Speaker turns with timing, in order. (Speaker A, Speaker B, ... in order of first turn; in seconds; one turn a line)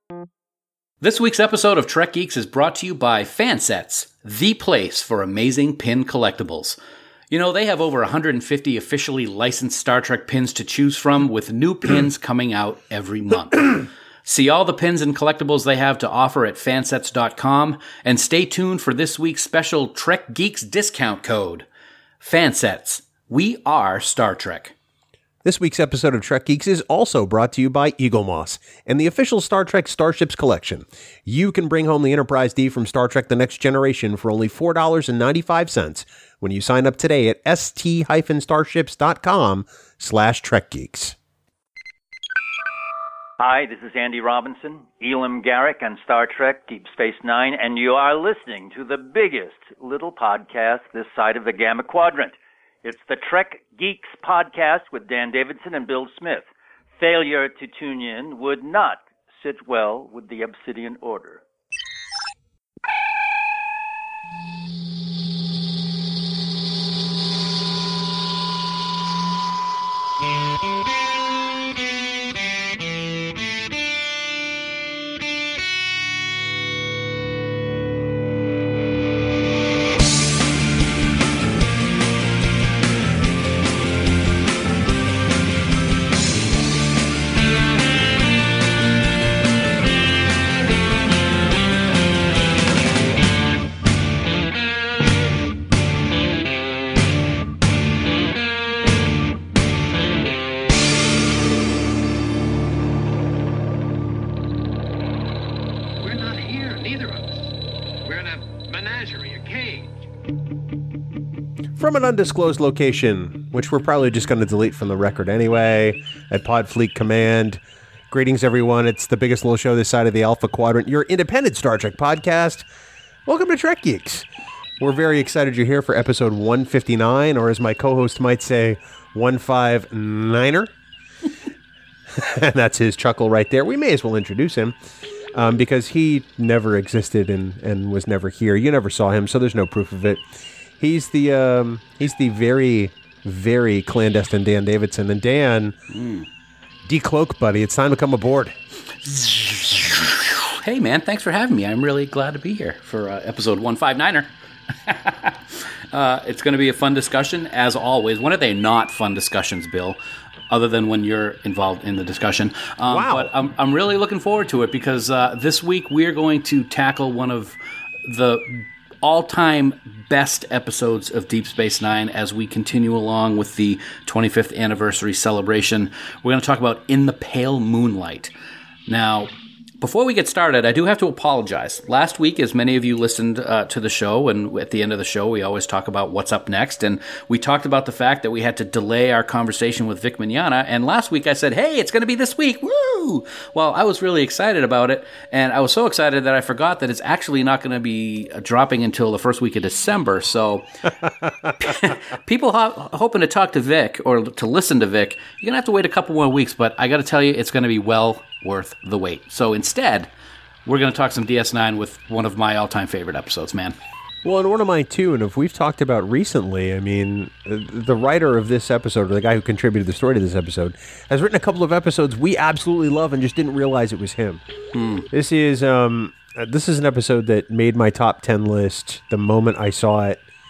Speaker A: 1.0-6.8
Speaker A: 7.3-21.6
Speaker A: 22.2-24.7
Speaker B: 25.4-41.1
Speaker C: 43.4-56.5
Speaker C: 57.0-61.4
Speaker B: 106.0-107.2
Speaker B: 108.1-109.8
Speaker B: 111.8-122.6
Speaker B: 123.2-124.3
Speaker B: 124.8-130.7
Speaker B: 132.1-134.8
Speaker B: 135.3-140.3
Speaker B: 140.8-145.7
Speaker A: 145.9-146.2
Speaker B: 146.8-148.6
Speaker A: 149.1-154.3
Speaker A: 154.8-160.0
Speaker A: 160.5-178.3
Speaker B: 162.9-163.3
Speaker A: 178.9-200.7
Speaker A: 201.6-210.1
Speaker A: 210.7-213.8
Speaker B: 214.2-224.4
Speaker A: 224.7-225.1
Speaker B: 225.1-230.2